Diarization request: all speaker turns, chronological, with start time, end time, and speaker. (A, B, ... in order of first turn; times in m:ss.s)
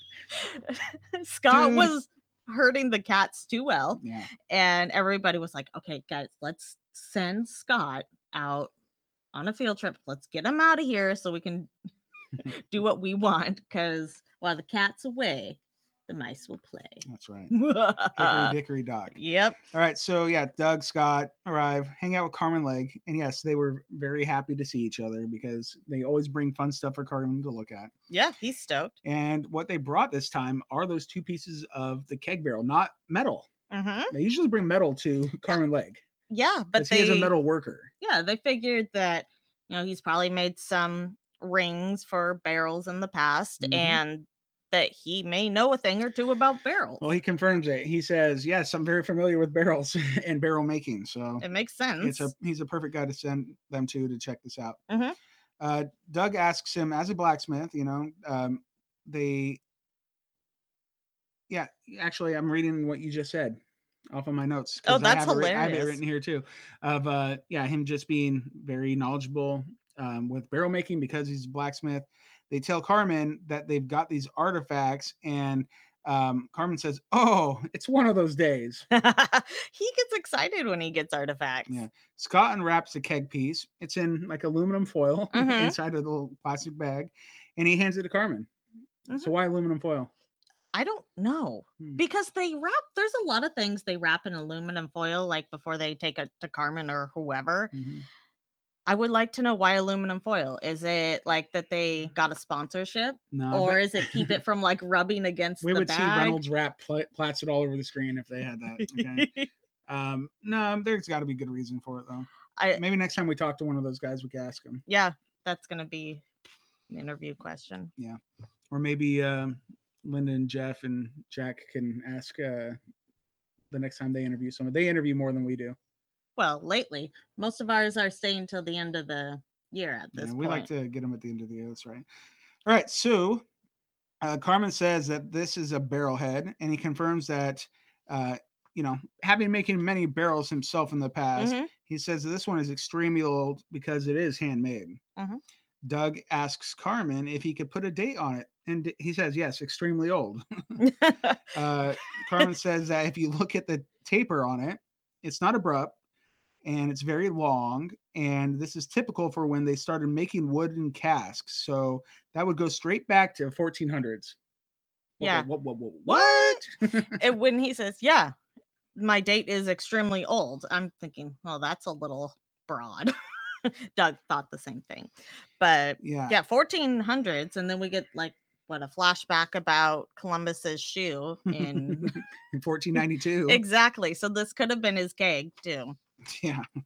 0:00.3-0:08.7 A
0:01.5-0:01.9 B
0:04.0-0:04.3 B
0:09.3-0:11.7 A
0:12.4-0:18.5 A
0:17.0-0:17.5 B
0:18.1-0:19.1 B
0:19.1-0:19.6 A
0:19.7-0:27.9 B
0:28.1-0:28.9 A
0:29.0-0:33.5 B
0:33.7-0:34.1 A
0:34.1-0:36.0 B
0:36.3-0:37.3 A
0:36.7-0:37.9 B
0:38.0-0:47.0 A
0:43.6-0:44.0 B
0:47.0-0:51.4 B
0:51.4-0:52.3 A
0:52.0-0:54.8 B
0:54.9-0:55.2 A
0:55.6-0:59.6 B
1:01.5-1:03.6 B
1:04.1-1:18.8 B
1:04.8-1:06.0 A
1:18.9-1:21.7 A
1:21.7-1:28.5 B
1:25.3-1:25.8 A
1:29.1-1:30.1 B
1:30.7-1:37.7 A
1:37.7-1:38.0 B
1:38.9-1:46.4 A
1:43.3-1:44.3 B
1:45.6-1:49.3 B
1:48.8-1:49.5 A
1:49.9-1:54.8 B
1:54.9-1:56.2 A
1:56.9-1:57.9 A
1:58.7-2:02.8 B
2:03.7-2:05.8 B
2:06.4-2:10.7 A
2:10.1-2:12.0 B
2:12.6-2:13.4 B
2:14.2-2:25.0 B
2:21.4-2:21.7 A
2:25.8-2:30.8 B
2:30.8-2:31.4 A
2:31.5-2:35.9 B
2:36.6-2:44.4 B
2:45.2-2:47.2 B
2:45.2-2:45.5 A
2:46.0-2:48.3 A
2:48.9-3:02.2 A
2:56.0-2:56.4 B
3:01.5-3:03.6 B
3:03.5-3:06.0 A
3:06.3-3:06.6 B